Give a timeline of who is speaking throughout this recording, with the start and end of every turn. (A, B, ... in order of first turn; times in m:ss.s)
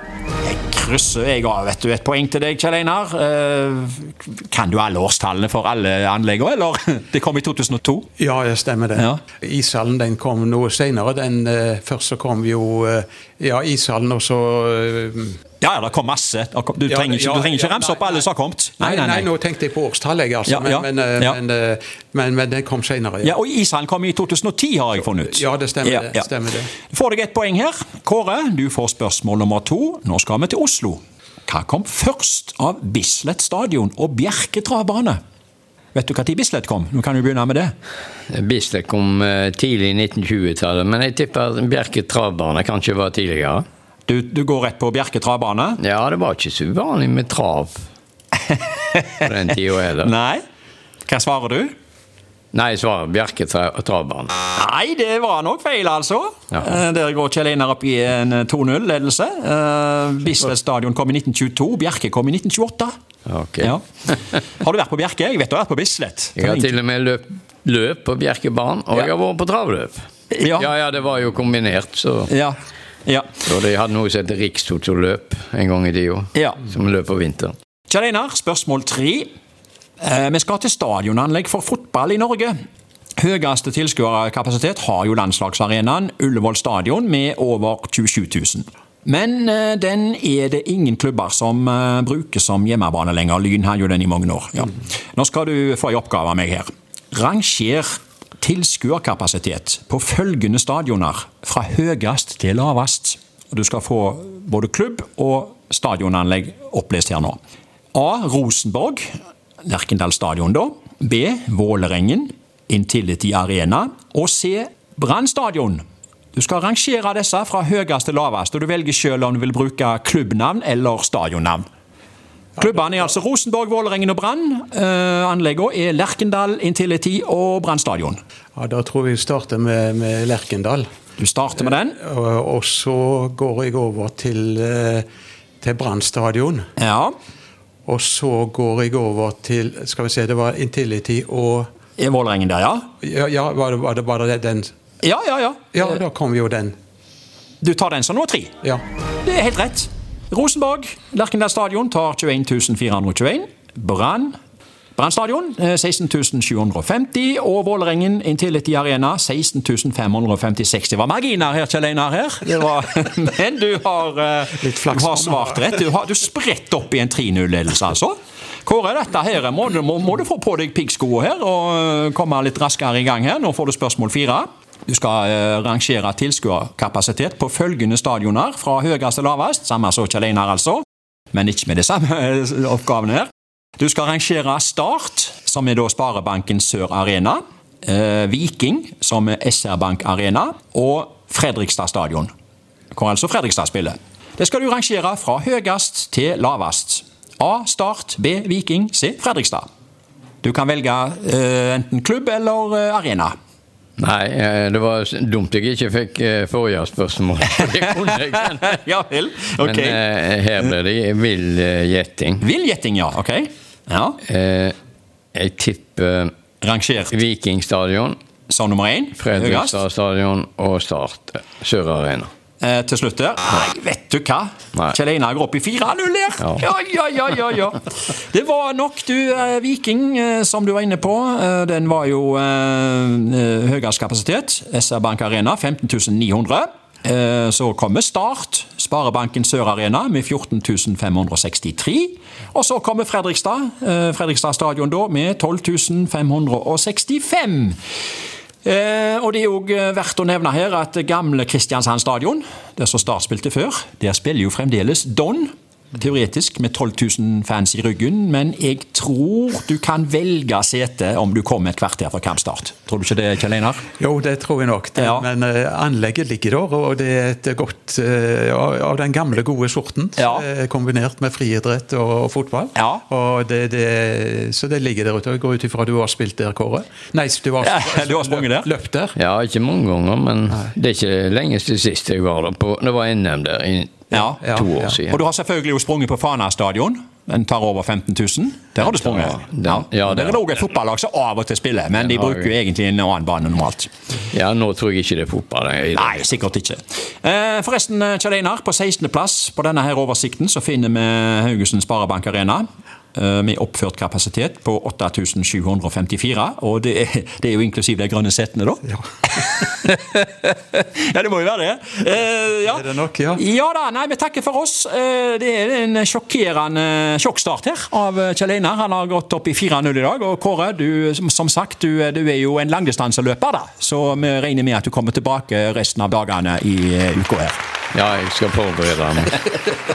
0:00.4-0:08.0 A
0:08.2-0:15.4 B
0:15.6-0:19.2 A
0:16.9-0:18.3 B
0:18.8-0:23.4 B
0:20.5-0:21.4 A
0:23.2-0:26.3 A
0:25.1-0:26.7 B
0:26.9-0:35.2 A
0:35.9-0:37.7 A
0:38.3-0:43.6 C
0:44.1-0:45.8 A
0:45.8-0:47.8 C
0:49.2-0:50.1 C
0:50.0-0:50.4 A
0:51.1-0:51.7 A
0:52.5-0:54.3 C
0:54.6-1:02.9 A
1:03.2-1:04.3 C
1:04.6-1:06.4 A
1:06.4-1:12.3 C
1:12.3-1:13.4 A
1:13.4-1:17.5 C
1:17.9-1:19.3 A
1:20.0-1:22.6 A
1:23.2-1:47.4 A
1:47.9-1:49.1 A
1:49.6-2:01.6 A
2:02.6-2:08.2 A
2:08.6-2:10.9 B
2:11.2-2:11.9 A
2:11.6-2:15.0 B
2:15.6-2:16.6 B
2:16.8-2:17.1 A
2:17.8-2:21.7 B
2:22.0-2:22.8 A
2:23.0-2:24.7 B
2:25.0-2:25.6 A
2:25.7-2:26.8 B
2:27.6-2:28.5 A
2:29.2-2:34.4 A
2:35.0-3:12.3 A
2:44.6-2:45.8 B
3:12.9-3:19.7 A
3:20.4-3:23.4 A
3:24.0-3:28.8 C
3:28.8-3:29.9 A
3:29.6-3:32.4 C
3:32.4-3:34.2 A
3:34.2-3:34.7 C
3:35.3-3:36.3 C
3:36.6-3:37.1 A
3:37.1-3:38.2 C
3:38.5-3:39.7 A
3:39.2-3:42.3 C
3:42.6-3:47.8 A
3:46.4-3:46.7 C
3:48.3-4:07.8 A
4:08.6-4:23.8 A
4:24.0-4:39.2 B
4:25.0-4:25.2 A
4:37.6-4:38.7 A
4:39.2-4:45.2 C
4:44.1-4:44.4 A
4:44.1-4:45.0 B
4:45.1-4:49.4 A
4:48.8-4:50.4 C
4:50.0-4:53.9 A
4:52.0-4:52.5 C
4:54.3-4:56.4 C
4:56.0-5:12.8 A
5:12.7-5:13.4 B
5:13.4-5:27.6 A
5:27.9-5:29.5 C